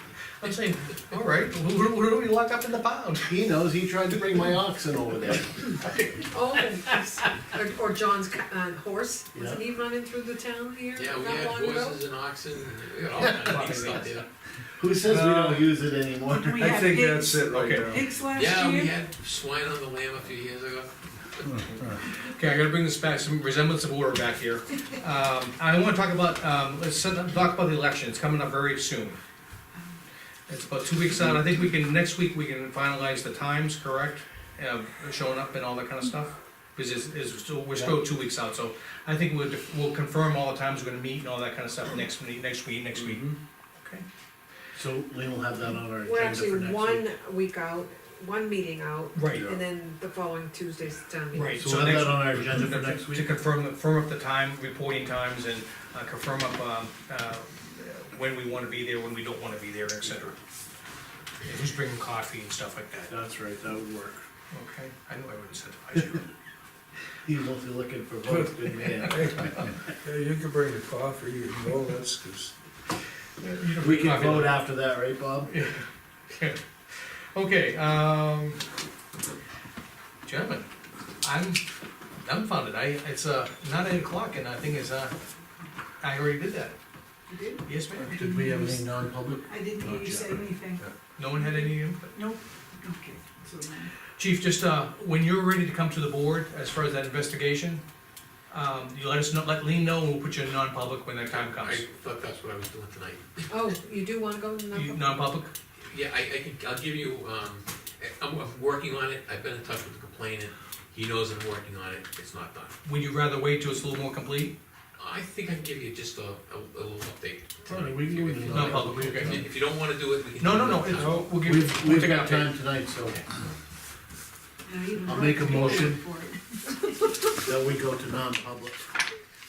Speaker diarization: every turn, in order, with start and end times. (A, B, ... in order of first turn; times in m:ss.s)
0:00.4-0:03.3 A
0:03.3-0:05.8 B
0:06.3-0:12.0 C
0:09.3-0:09.6 B
0:11.0-0:14.2 D
0:13.1-0:14.2 A
0:14.8-0:16.8 B
0:15.1-0:15.6 A
0:16.3-0:19.0 E
0:16.6-0:18.2 F
0:17.5-0:18.0 A
0:18.3-0:21.6 D
0:21.6-0:29.2 A
0:30.5-0:43.3 A
0:43.0-0:43.4 B
0:44.7-0:47.0 B
0:46.0-0:51.8 C
0:49.1-0:49.5 A
0:51.3-1:00.3 A
0:51.6-0:53.4 B
1:01.4-1:03.1 A
1:03.1-1:04.2 B
1:04.5-1:06.3 A
1:07.2-1:09.5 B
1:08.3-1:12.5 F
1:13.4-1:14.6 A
1:13.8-1:15.5 B
1:15.5-1:18.6 A
1:20.2-1:20.7 A
1:21.2-1:21.6 A
1:22.2-1:25.1 A
1:26.0-1:26.8 A
1:27.3-1:27.6 E
1:27.6-1:28.2 A
1:28.1-1:30.5 B
1:28.1-1:28.8 E
1:29.5-1:30.9 E
1:31.2-1:32.2 A
1:31.4-1:33.9 E
1:34.2-1:37.8 A
1:38.5-1:41.8 A
1:41.3-1:43.5 D
1:43.5-1:45.1 C
1:44.7-1:45.5 A
1:45.8-1:52.7 D
1:52.8-1:54.6 A
1:55.0-2:01.4 D
1:57.7-1:59.5 B
1:58.5-1:59.4 A
2:00.4-2:02.5 A
2:01.3-2:03.2 B
2:04.7-2:06.6 E
2:04.9-2:06.0 C
2:05.0-2:06.0 B
2:07.4-2:08.8 B